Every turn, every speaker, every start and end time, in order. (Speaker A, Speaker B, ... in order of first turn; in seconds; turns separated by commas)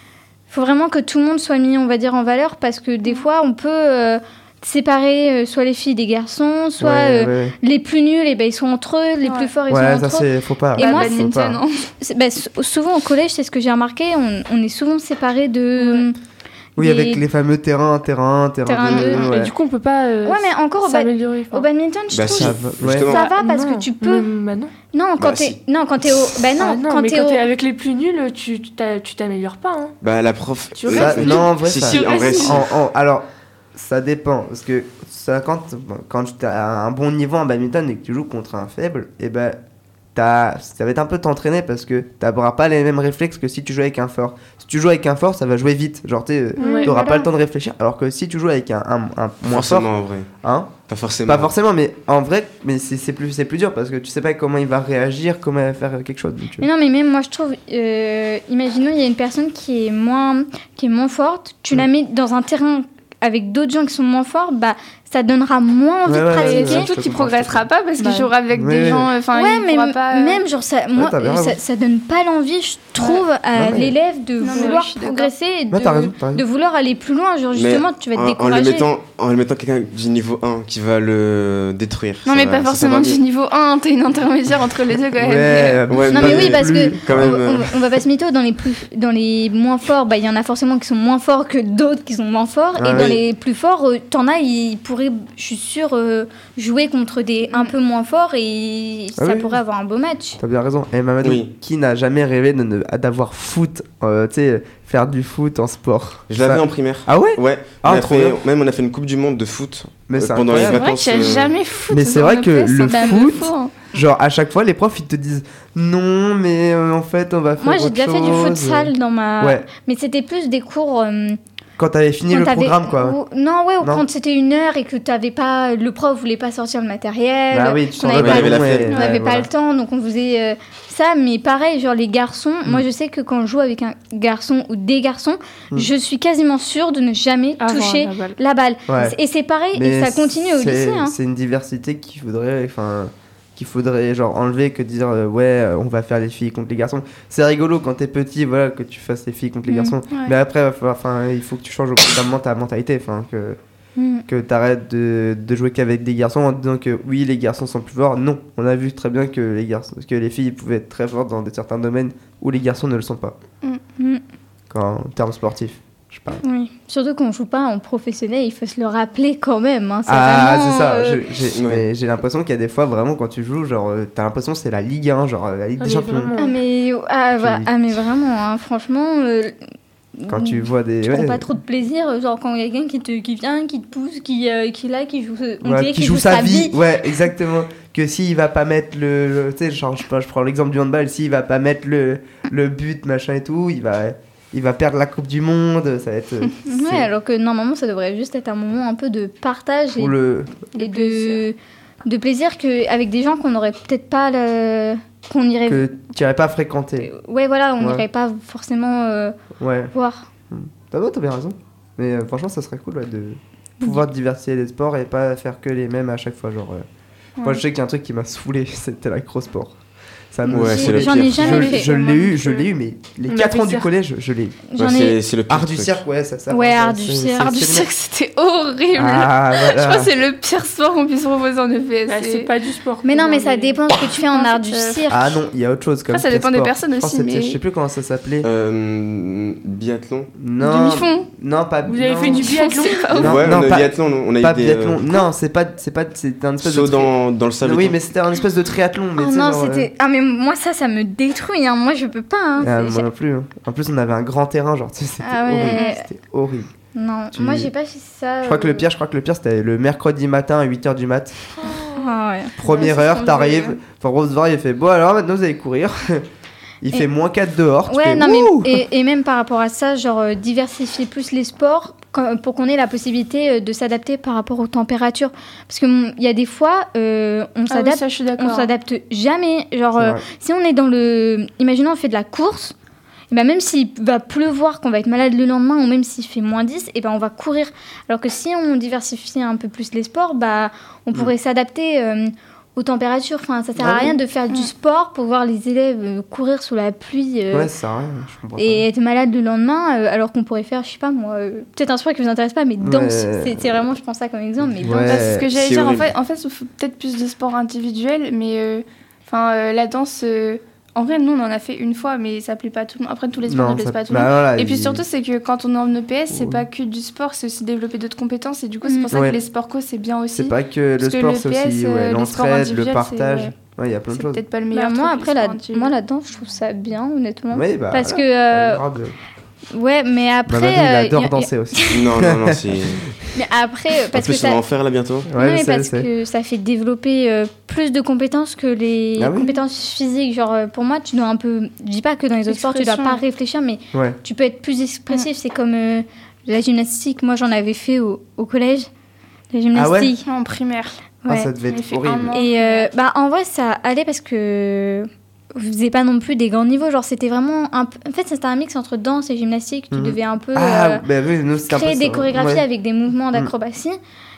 Speaker A: 0.5-11.2, Speaker B: 6.8-7.6, Speaker C: 9.2-9.5, Speaker B: 9.7-11.6, Speaker C: 10.8-11.9, Speaker A: 12.0-16.2, Speaker A: 16.8-17.2, Speaker B: 16.8-19.5, Speaker A: 18.7-19.3, Speaker D: 18.9-19.4, Speaker E: 19.2-21.7, Speaker A: 20.2-24.3, Speaker D: 22.1-23.3, Speaker B: 22.2-23.2, Speaker E: 23.2-24.7, Speaker A: 24.9-27.4, Speaker D: 25.2-25.6, Speaker E: 26.6-30.0, Speaker D: 30.0-32.6, Speaker E: 30.8-32.5, Speaker B: 30.9-39.6, Speaker C: 31.9-32.3, Speaker B: 40.1-49.9, Speaker C: 46.6-47.3, Speaker E: 46.6-47.0, Speaker D: 49.4-50.3, Speaker B: 50.4-50.7, Speaker D: 50.9-51.5, Speaker B: 51.2-56.7, Speaker A: 56.6-66.9, Speaker B: 66.1-67.7, Speaker C: 66.4-70.4, Speaker E: 68.0-68.3, Speaker B: 68.5-69.1, Speaker A: 69.3-78.9, Speaker B: 71.0-71.6, Speaker B: 73.5-74.0, Speaker C: 74.4-75.3, Speaker B: 75.7-76.4, Speaker D: 77.5-83.2, Speaker C: 82.2-85.9, Speaker B: 85.2-87.4, Speaker D: 85.9-87.8, Speaker A: 86.1-100.4, Speaker B: 92.8-93.2, Speaker B: 99.2-99.6, Speaker B: 100.4-108.4, Speaker D: 101.2-101.5, Speaker D: 106.3-111.5, Speaker B: 110.1-110.8, Speaker C: 110.6-113.8, Speaker B: 111.9-119.7, Speaker A: 112.9-113.2, Speaker A: 117.6-121.4, Speaker B: 121.8-123.2, Speaker A: 122.3-141.1, Speaker B: 127.5-129.5, Speaker D: 128.1-128.9, Speaker C: 128.9-129.2, Speaker E: 137.6-138.4, Speaker B: 138.9-139.2, Speaker B: 139.7-153.6, Speaker A: 149.7-149.9, Speaker A: 154.0-154.2, Speaker B: 154.3-163.3, Speaker B: 164.7-166.4, Speaker A: 166.4-171.2, Speaker B: 170.1-176.3, Speaker D: 171.6-171.8, Speaker E: 175.8-176.6, Speaker A: 176.4-179.6, Speaker B: 177.4-177.7, Speaker A: 180.2-186.9, Speaker B: 180.3-181.5, Speaker B: 185.6-197.1, Speaker A: 196.7-200.1, Speaker B: 200.0-200.6, Speaker A: 200.8-205.9, Speaker E: 200.9-201.4, Speaker B: 205.7-207.1, Speaker A: 207.0-209.4, Speaker B: 207.8-208.1, Speaker B: 209.6-209.9, Speaker A: 209.9-210.3, Speaker B: 210.5-216.9, Speaker B: 217.4-219.8, Speaker B: 220.3-224.6, Speaker A: 220.4-222.7, Speaker D: 220.5-221.8, Speaker E: 223.3-223.9, Speaker A: 224.7-225.2, Speaker D: 224.8-226.0, Speaker B: 225.5-227.9, Speaker A: 226.5-227.7, Speaker C: 227.4-232.5, Speaker B: 228.9-230.1, Speaker E: 232.1-233.8, Speaker A: 233.0-235.2, Speaker C: 234.2-235.1, Speaker B: 235.1-238.5, Speaker C: 236.1-237.6, Speaker D: 238.4-240.3, Speaker B: 240.4-242.5, Speaker C: 240.6-241.3, Speaker E: 241.9-243.1, Speaker C: 242.2-243.7, Speaker A: 242.6-242.8, Speaker D: 243.2-245.1, Speaker B: 243.2-249.9, Speaker D: 246.6-248.0, Speaker A: 249.2-253.1, Speaker B: 252.6-256.7, Speaker A: 255.2-256.0, Speaker C: 255.7-256.0, Speaker A: 256.9-258.9, Speaker B: 257.3-257.7, Speaker B: 258.4-261.4, Speaker A: 261.9-262.9, Speaker B: 262.6-266.3, Speaker C: 262.7-263.8, Speaker B: 266.8-268.9, Speaker A: 267.9-282.7, Speaker C: 277.7-278.7, Speaker B: 280.0-280.2, Speaker A: 283.3-297.7, Speaker B: 293.8-294.1, Speaker B: 297.5-298.9, Speaker A: 298.6-305.3, Speaker B: 302.8-303.8, Speaker B: 304.6-305.5, Speaker C: 305.1-323.5, Speaker D: 305.5-306.1, Speaker B: 313.5-315.0, Speaker B: 316.3-316.6, Speaker A: 318.9-319.2, Speaker B: 319.1-319.4, Speaker B: 320.3-324.4, Speaker C: 324.1-325.9, Speaker A: 324.7-328.8, Speaker B: 327.5-329.1, Speaker A: 329.7-332.1, Speaker B: 330.5-333.0, Speaker D: 331.9-333.1, Speaker A: 333.3-334.6, Speaker D: 334.1-335.3, Speaker B: 335.3-336.1, Speaker A: 335.4-348.9, Speaker B: 339.2-339.6, Speaker C: 342.5-343.2, Speaker B: 343.9-344.2, Speaker A: 349.5-350.2, Speaker B: 349.7-350.1, Speaker C: 350.2-351.0, Speaker A: 351.3-351.5, Speaker B: 351.3-352.3, Speaker C: 351.7-352.9, Speaker A: 352.3-361.0, Speaker B: 359.9-362.6, Speaker A: 361.7-364.0